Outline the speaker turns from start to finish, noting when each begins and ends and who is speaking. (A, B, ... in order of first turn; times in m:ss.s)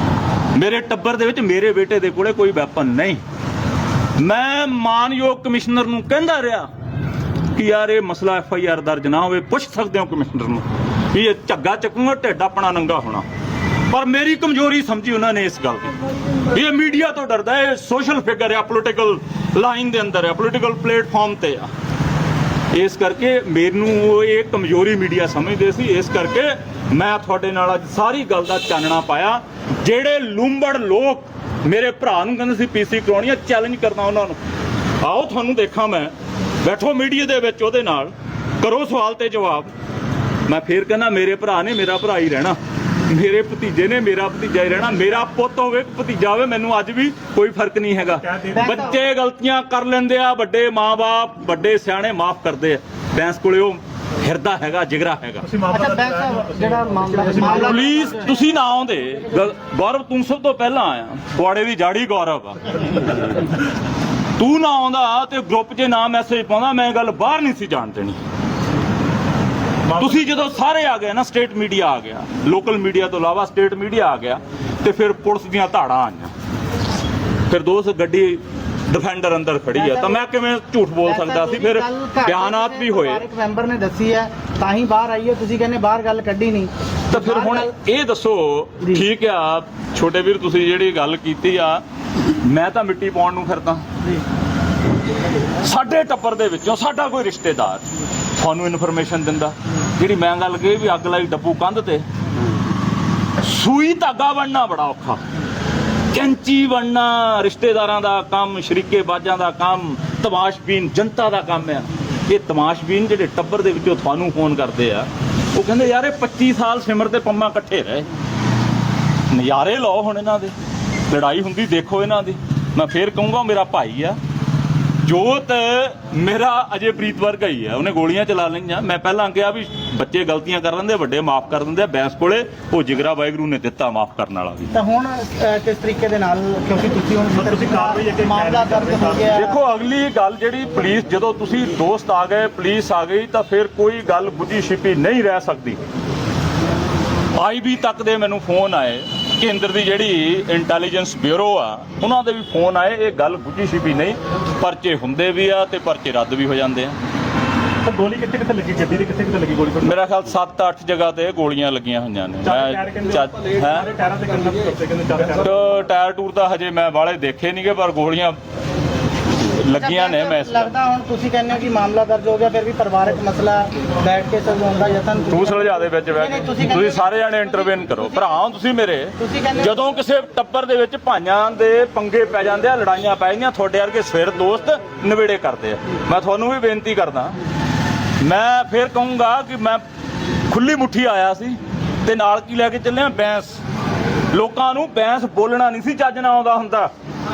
0:00.5-0:03.2 A
0:04.2-0:06.7 A
0:07.5-0:13.2 A
0:13.9-0:21.7 A
0:22.7-0:34.4 A
0:35.0-0:39.7 A
0:40.5-0:55.5 A
0:48.1-0:49.0 B
0:48.5-0:48.9 C
0:55.4-0:58.0 B
0:55.7-0:58.4 C
0:57.5-1:03.4 A
1:04.4-1:08.2 A
1:09.9-1:10.1 B
1:09.9-1:16.3 A
1:17.5-1:23.2 A
1:19.7-1:20.2 C
1:21.0-1:27.7 C
1:27.1-1:33.8 A
1:35.6-1:37.8 A
1:38.4-1:42.0 A
1:43.4-1:45.2 A
1:46.1-1:58.1 A
1:59.3-2:00.5 A
2:01.1-2:04.2 A
2:05.0-2:14.7 A
2:14.7-2:19.6 C
2:17.3-2:19.4 B
2:19.3-2:25.8 A
2:27.3-2:37.0 A
2:37.8-2:40.0 B
2:39.8-2:43.9 A
2:42.4-2:45.6 B
2:45.4-2:48.4 A
2:49.4-2:50.7 A
2:49.7-2:58.4 C
2:55.3-3:07.4 A
2:59.2-2:59.9 C
3:08.2-3:09.8 A
3:10.5-3:13.6 A
3:14.3-3:16.9 A